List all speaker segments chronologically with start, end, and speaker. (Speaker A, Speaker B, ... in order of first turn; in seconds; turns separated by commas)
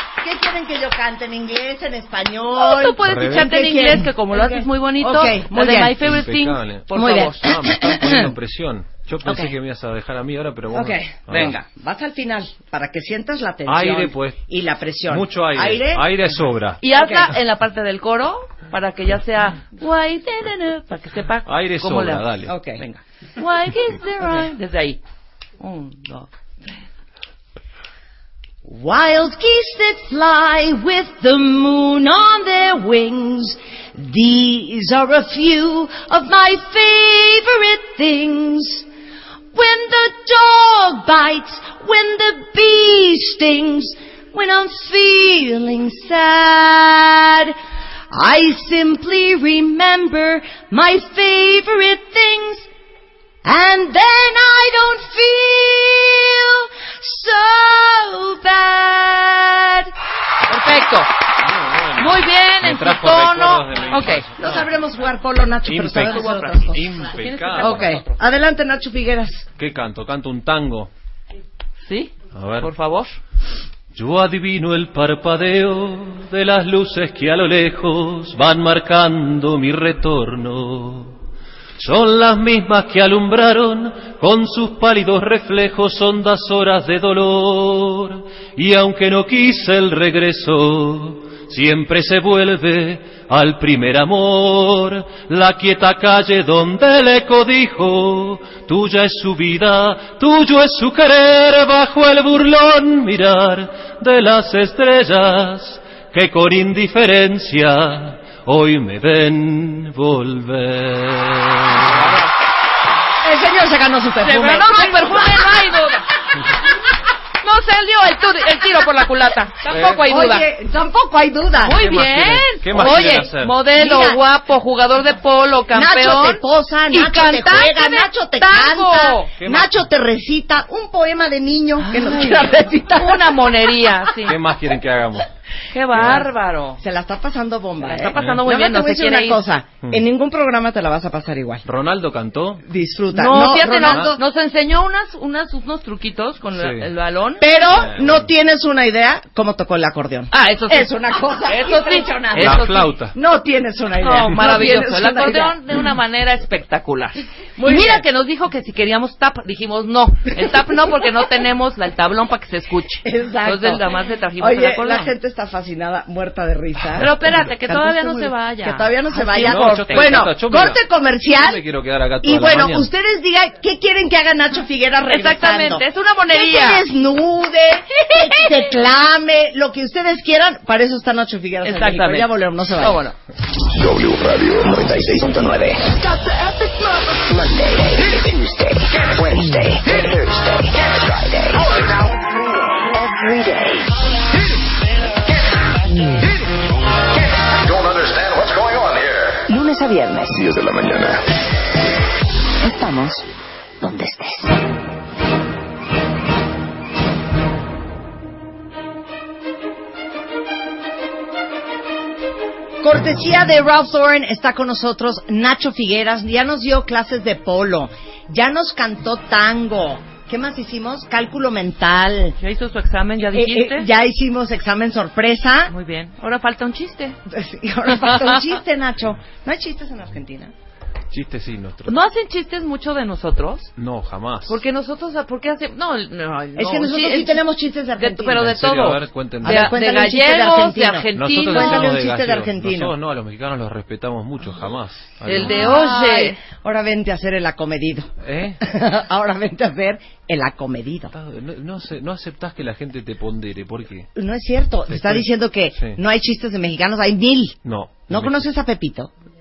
Speaker A: 0.2-6.0, Speaker B: 2.6-7.7, Speaker C: 3.1-3.5, Speaker C: 6.0-11.6, Speaker A: 6.9-8.0, Speaker A: 10.7-16.1, Speaker C: 13.7-14.4, Speaker C: 15.1-16.8, Speaker B: 16.8-25.0, Speaker A: 16.9-17.3, Speaker C: 21.4-22.5, Speaker A: 22.4-22.8, Speaker B: 25.6-26.8, Speaker A: 28.6-38.9, Speaker A: 39.5-47.6, Speaker A: 48.1-52.7, Speaker A: 53.4-59.9, Speaker B: 60.5-61.1, Speaker C: 61.4-64.7, Speaker B: 62.0-64.3, Speaker A: 64.4-66.9, Speaker C: 65.6-68.0, Speaker B: 66.2-68.2, Speaker A: 67.6-69.5, Speaker C: 69.6-70.9, Speaker B: 71.8-73.2, Speaker C: 72.3-72.7, Speaker C: 73.9-81.2, Speaker C: 81.8-112.0, Speaker A: 113.2-115.6, Speaker B: 114.2-116.2, Speaker B: 117.4-120.5, Speaker A: 119.7-124.2, Speaker B: 121.6-129.3, Speaker C: 121.7-123.6, Speaker A: 125.7-133.4, Speaker C: 129.4-129.8, Speaker B: 131.8-134.4, Speaker C: 134.2-135.3, Speaker B: 135.7-136.8, Speaker C: 136.0-136.3, Speaker A: 136.8-141.6, Speaker B: 137.8-139.4, Speaker C: 141.6-142.6, Speaker A: 142.6-144.2, Speaker B: 143.1-147.4, Speaker C: 143.4-144.2, Speaker C: 146.6-146.9, Speaker A: 147.4-155.6, Speaker C: 147.6-148.3, Speaker B: 150.3-152.9, Speaker C: 152.4-153.2, Speaker B: 154.0-165.1, Speaker A: 157.6-158.0, Speaker A: 163.0-163.9, Speaker A: 164.4-167.1, Speaker B: 166.9-170.3, Speaker A: 167.7-171.6, Speaker C: 169.4-172.9, Speaker A: 172.2-183.0, Speaker B: 175.1-176.9, Speaker B: 181.6-183.2, Speaker D: 183.7-185.4, Speaker A: 184.7-186.6, Speaker A: 187.3-192.2, Speaker A: 192.8-193.9, Speaker A: 195.8-196.3, Speaker D: 197.7-199.3, Speaker A: 199.5-200.4, Speaker D: 200.3-201.3, Speaker A: 202.6-203.3, Speaker A: 203.8-204.7, Speaker A: 212.8-222.4, Speaker B: 222.4-223.9, Speaker A: 223.3-225.7, Speaker B: 225.7-227.2, Speaker A: 227.2-230.5, Speaker B: 228.0-228.4, Speaker C: 231.1-232.0, Speaker B: 231.9-233.7, Speaker C: 233.8-234.6, Speaker B: 234.4-237.4, Speaker A: 236.6-238.6, Speaker B: 238.0-241.9, Speaker C: 238.4-239.7, Speaker A: 239.4-242.9, Speaker C: 241.1-245.6, Speaker B: 245.2-246.4, Speaker A: 245.4-251.1, Speaker C: 248.2-248.6, Speaker C: 251.1-254.1, Speaker A: 254.1-259.1, Speaker C: 254.9-256.0, Speaker C: 257.6-258.5